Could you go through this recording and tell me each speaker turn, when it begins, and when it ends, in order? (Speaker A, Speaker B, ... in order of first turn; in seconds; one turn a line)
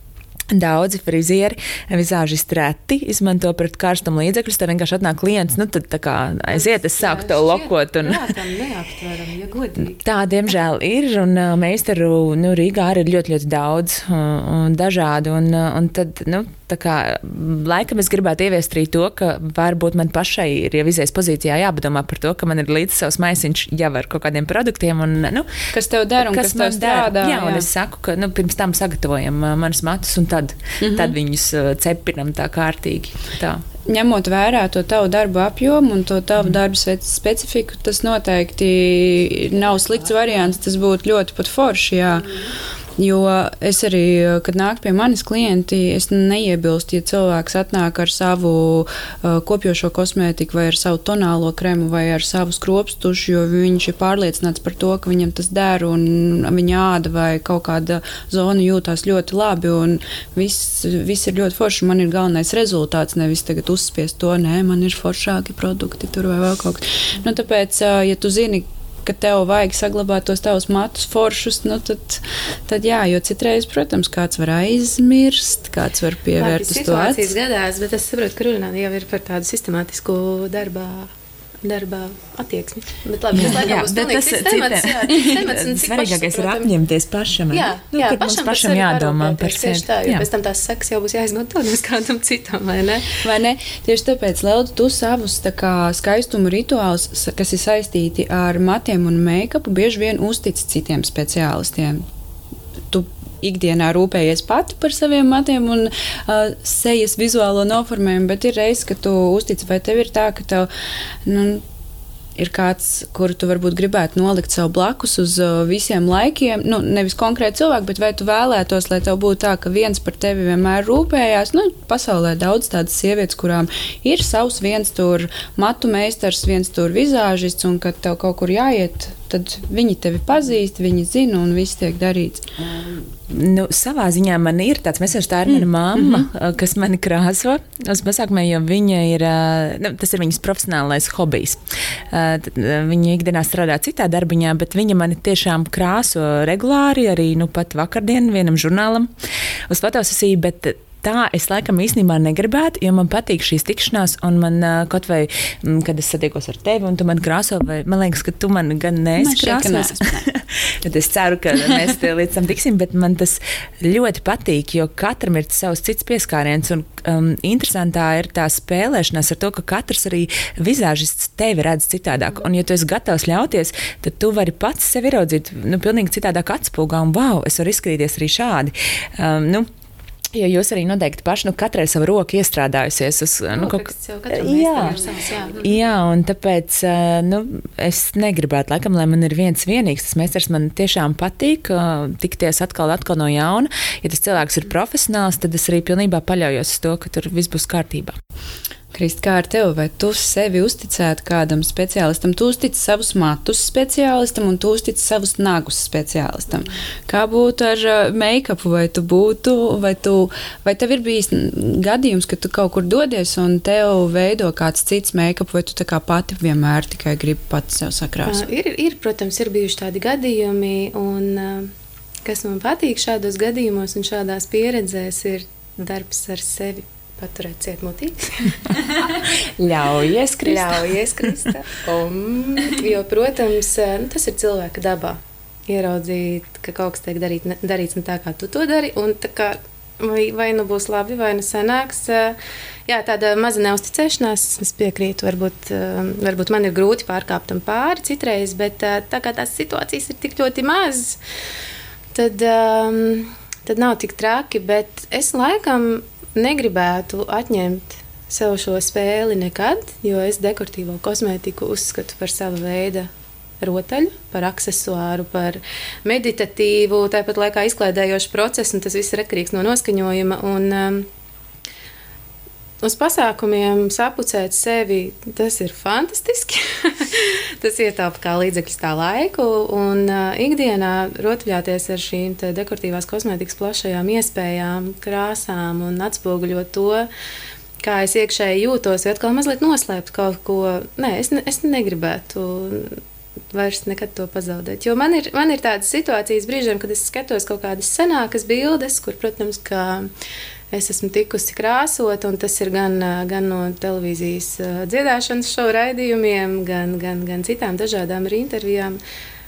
Speaker A: 0.5-8.3
Speaker B: 6.5-10.0
Speaker A: 10.0-25.5
Speaker C: 25.7-27.6
Speaker A: 26.2-33.6
Speaker C: 30.8-31.1
Speaker C: 33.9-42.3
Speaker C: 43.0-77.3
Speaker B: 76.4-81.1
Speaker B: 81.6-86.7
Speaker A: 83.3-90.2
Speaker B: 87.5-93.2
Speaker C: 93.2-102.0
Speaker C: 102.9-110.7
Speaker C: 111.2-111.6
Speaker C: 112.3-132.5
Speaker A: 133.2-149.1
Speaker C: 135.5-136.3
Speaker A: 149.7-179.7
Speaker C: 159.2-160.3
Speaker A: 180.3-185.0
Speaker B: 183.5-185.7
Speaker A: 185.6-198.1
Speaker C: 198.9-218.4
Speaker B: 218.2-221.7
Speaker B: 222.2-228.7
Speaker A: 229.0-231.5
Speaker B: 230.4-251.2
Speaker B: 252.1-263.1
Speaker B: 263.6-271.1
Speaker B: 272.8-287.1
Speaker B: 287.8-293.0
Speaker B: 293.5-300.1
Speaker B: 300.7-309.0